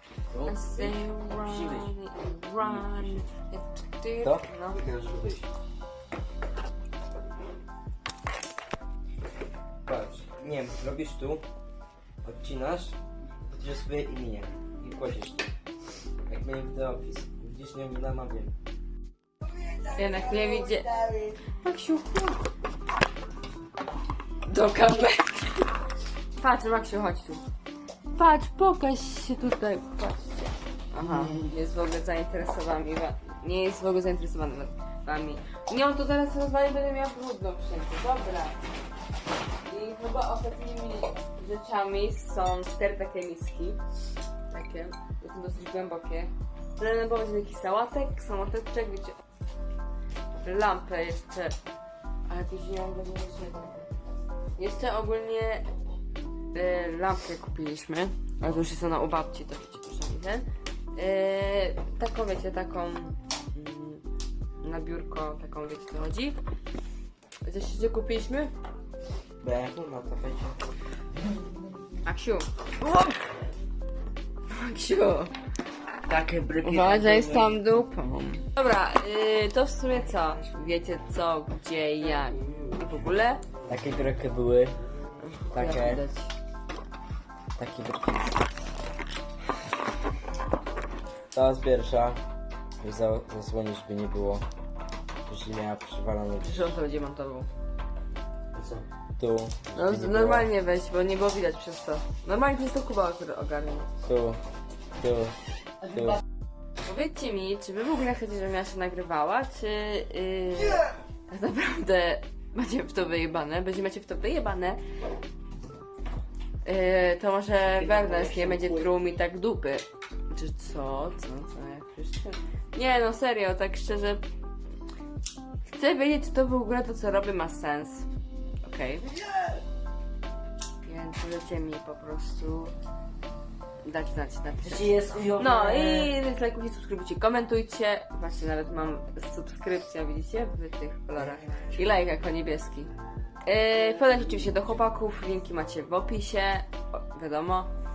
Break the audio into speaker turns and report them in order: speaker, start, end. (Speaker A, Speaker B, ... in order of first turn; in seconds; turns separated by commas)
Speaker A: 0.3-1.9, Speaker B: 0.4-4.8, Speaker A: 2.6-3.3, Speaker A: 4.2-5.5, Speaker A: 9.8-11.4, Speaker A: 12.2-15.5, Speaker A: 16.3-18.5, Speaker B: 19.9-20.9, Speaker B: 21.6-22.4, Speaker B: 24.4-25.7, Speaker B: 26.4-27.4, Speaker B: 28.1-38.6, Speaker A: 31.0-31.5, Speaker B: 39.6-43.8, Speaker B: 44.5-49.2, Speaker B: 50.4-51.6, Speaker B: 52.2-53.8, Speaker B: 54.6-55.7, Speaker B: 56.5-64.0, Speaker B: 64.6-66.4, Speaker B: 67.4-68.5, Speaker A: 69.4-70.5, Speaker B: 72.0-72.5, Speaker B: 74.5-75.3, Speaker A: 76.0-77.6, Speaker B: 76.6-83.4, Speaker A: 82.2-82.8, Speaker A: 83.6-84.8, Speaker B: 85.2-86.3, Speaker A: 85.5-86.0, Speaker A: 87.6-88.3, Speaker A: 91.3-92.2, Speaker A: 92.8-94.4, Speaker A: 95.3-96.8, Speaker B: 96.4-97.5, Speaker A: 98.5-100.5, Speaker B: 99.7-103.9, Speaker A: 104.0-104.4, Speaker A: 105.0-105.3, Speaker A: 105.9-106.2, Speaker B: 106.8-114.8, Speaker B: 116.6-124.2, Speaker A: 117.7-118.9, Speaker B: 125.7-128.1, Speaker B: 128.6-129.1, Speaker B: 130.8-132.7, Speaker B: 133.8-142.9, Speaker A: 134.6-136.1, Speaker A: 141.2-141.8, Speaker B: 143.4-147.7, Speaker A: 143.7-144.7